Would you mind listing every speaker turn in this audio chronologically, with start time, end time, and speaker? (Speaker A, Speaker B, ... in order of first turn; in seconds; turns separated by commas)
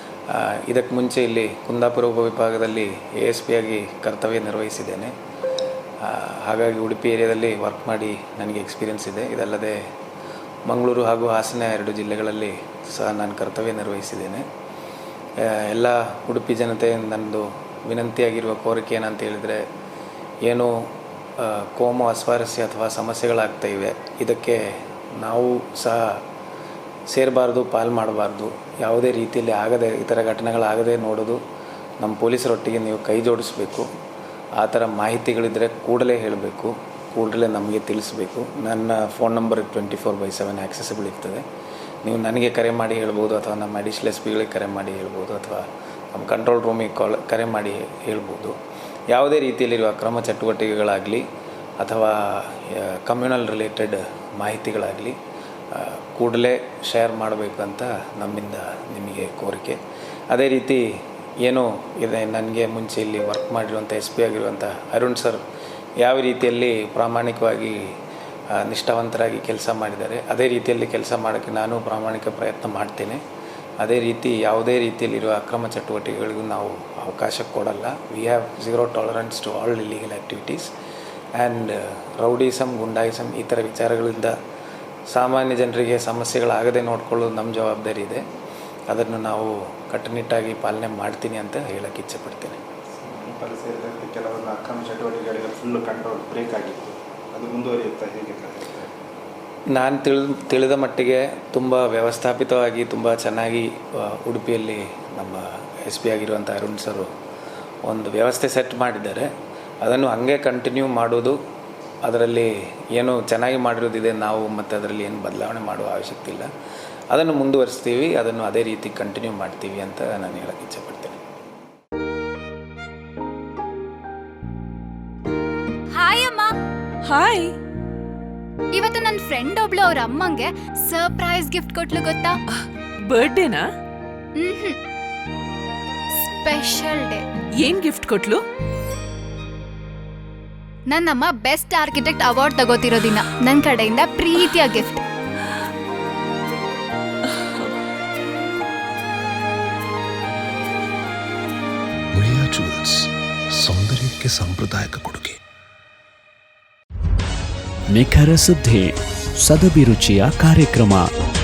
Speaker A: 0.3-5.1, Speaker A: 6.0-9.8, Speaker A: 10.7-14.5, Speaker A: 15.4-19.6, Speaker A: 20.4-20.8, Speaker A: 21.4-24.6, Speaker A: 25.2-26.2, Speaker A: 27.1-31.4, Speaker A: 32.0-33.9, Speaker A: 34.6-41.5, Speaker A: 42.0-48.6, Speaker A: 49.1-51.3, Speaker A: 51.8-55.2, Speaker A: 55.7-60.8, Speaker A: 61.4-65.4, Speaker A: 66.0-67.8, Speaker A: 68.6-73.2, Speaker A: 73.8-80.7, Speaker A: 81.4-84.4, Speaker A: 85.1-88.2, Speaker A: 88.9-92.6, Speaker B: 93.1-98.9, Speaker A: 99.7-107.1, Speaker A: 107.9-109.3, Speaker A: 109.8-111.4, Speaker A: 112.0-116.5, Speaker A: 117.1-121.2, Speaker C: 125.9-126.5, Speaker D: 127.1-127.5, Speaker C: 128.7-132.3, Speaker D: 133.1-133.7, Speaker C: 134.4-134.8, Speaker C: 136.2-137.2, Speaker D: 137.6-138.4, Speaker C: 140.9-145.0, Speaker D: 147.3-147.7, Speaker E: 152.1-155.4, Speaker F: 157.9-161.1